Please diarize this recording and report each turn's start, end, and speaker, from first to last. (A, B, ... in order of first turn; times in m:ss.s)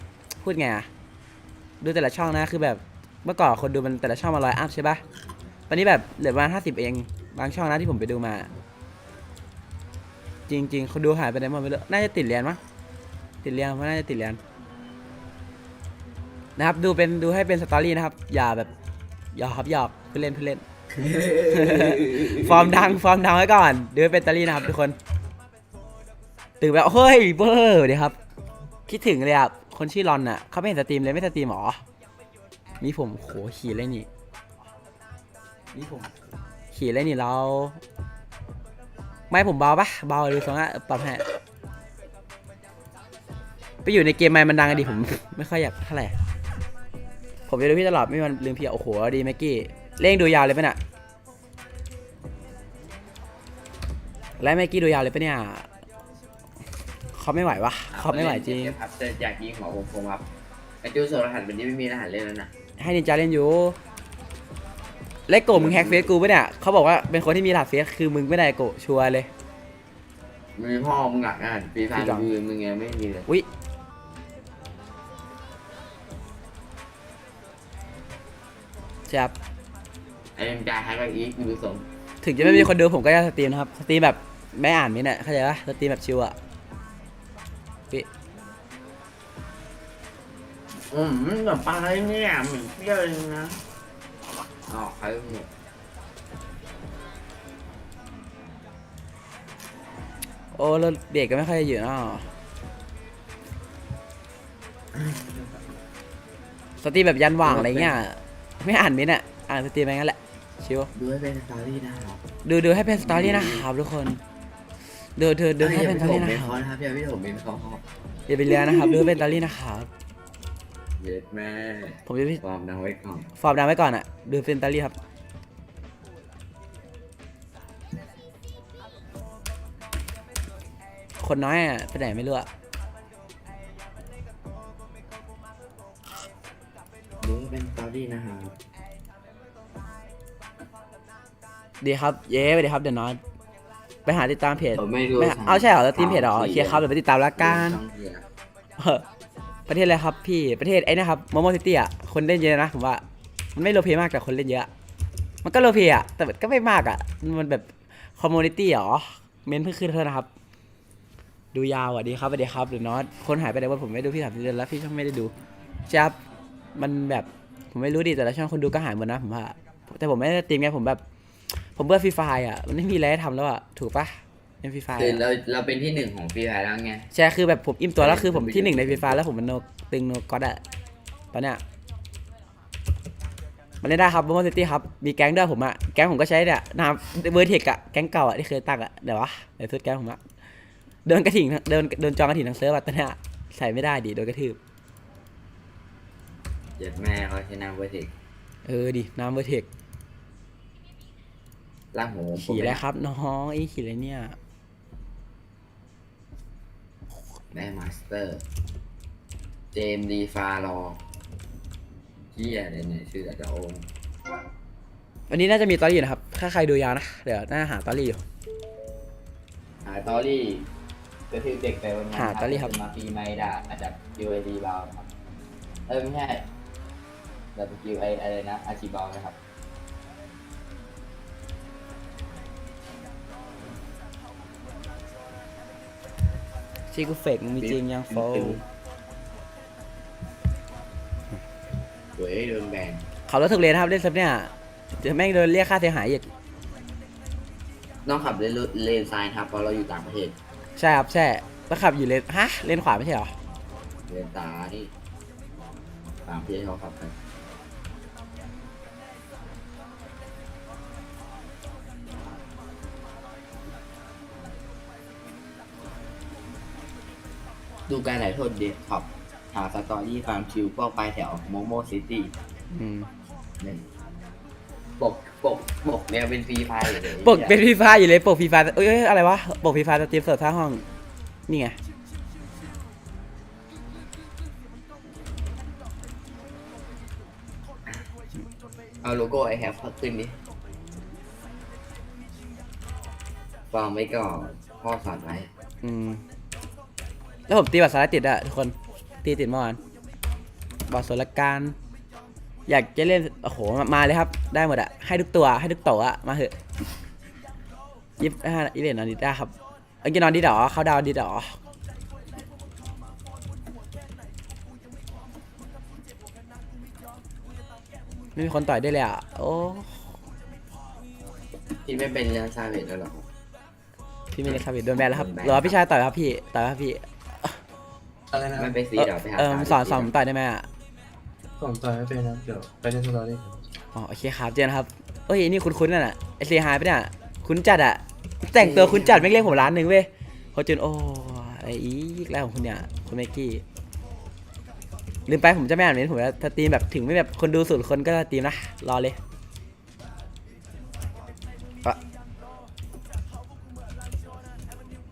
0:00.4-0:00.9 A
0:01.8-0:05.0 A
0:05.7-0:08.5 A
0:10.5-0:12.6 A
0:13.4-0:14.4 A
0:16.6-0:18.7 A
0:19.3-0:20.6 A
0:21.0-0:22.9 B
0:21.4-0:25.0 A
0:26.6-0:28.2 A
0:28.9-0:31.8 A
0:32.8-0:34.1 A
0:35.7-0:36.1 A
0:36.7-0:37.8 A
0:39.3-0:41.2 A
0:43.8-0:46.2 A
0:44.6-0:45.1 B
0:47.5-0:50.8 A
0:54.4-0:55.7 A
0:57.1-0:58.7 A
0:57.9-1:00.2 B
1:00.8-1:02.5 B
1:02.8-1:03.8 A
1:05.3-1:09.3 A
1:05.5-1:06.1 B
1:10.6-1:13.3 B
1:11.9-1:12.3 A
1:19.1-1:19.3 A
1:20.3-1:21.8 B
1:22.2-1:26.4 A
1:30.9-1:33.6 B
1:34.7-1:35.5 B
1:40.5-1:42.3 A
1:44.9-1:45.4 B
1:46.8-1:50.9 A
1:47.4-1:48.0 B
1:50.9-1:52.2 B
1:52.4-1:54.2 A
1:53.0-1:53.7 B
1:55.2-1:56.5 A
1:55.6-1:57.8 B
1:58.3-1:59.9 A
1:58.5-1:59.2 B
2:01.0-2:03.3 B
2:02.0-2:02.4 A
2:03.4-2:05.0 A
2:11.2-2:12.5 A
2:17.2-2:18.5 B
2:21.8-2:23.2 A
2:24.0-2:27.8 A
2:24.7-2:26.8 B
2:27.4-2:28.2 B
2:28.8-2:29.0 A
2:29.7-2:33.0 A
2:33.5-2:34.7 A
2:35.4-2:40.3 A
2:41.5-2:45.3 A
2:45.9-2:46.2 A
2:46.8-2:51.0 A
2:51.7-2:55.2 A
2:54.9-2:57.1 B
2:57.1-3:00.6 A
2:58.0-2:59.2 B
3:01.3-3:01.6 A
3:03.8-3:10.2 A
3:11.0-3:14.6 A
3:16.8-3:18.1 B
3:18.6-3:19.7 A
3:21.9-3:22.8 B
3:22.4-3:24.4 A
3:27.5-3:28.4 B
3:29.7-3:31.0 B
3:32.3-3:33.9 B
3:35.3-3:38.2 A
3:39.8-3:40.7 B
3:41.3-3:45.1 B
3:42.1-3:42.7 A
3:45.9-3:46.4 B
3:47.5-3:49.4 B
3:56.9-3:58.6 A
3:57.6-3:58.6 B
4:02.1-4:03.0 B
4:03.3-4:06.3 A
4:08.0-4:10.4 B
4:10.8-4:13.3 A
4:14.1-4:14.9 B
4:16.2-4:17.1 B
4:27.9-4:32.3 B
4:32.7-4:33.1 A
4:35.0-4:37.6 B
4:37.1-4:40.8 A
4:41.5-4:41.8 A
4:49.0-4:50.4 B
4:53.7-4:55.5 B
4:55.8-4:56.2 A
4:57.5-4:59.8 A
5:00.9-5:01.8 A
5:02.7-5:06.5 A
5:08.2-5:11.6 A
5:18.3-5:20.0 A
5:21.8-5:23.2 B
5:24.3-5:27.6 A
5:24.4-5:25.8 B
5:28.3-5:28.7 C
5:28.5-5:30.1 B
5:29.0-5:30.7 A
5:31.6-5:33.6 C
5:33.9-5:43.6 A
5:38.5-5:39.5 B
5:45.3-5:49.2 A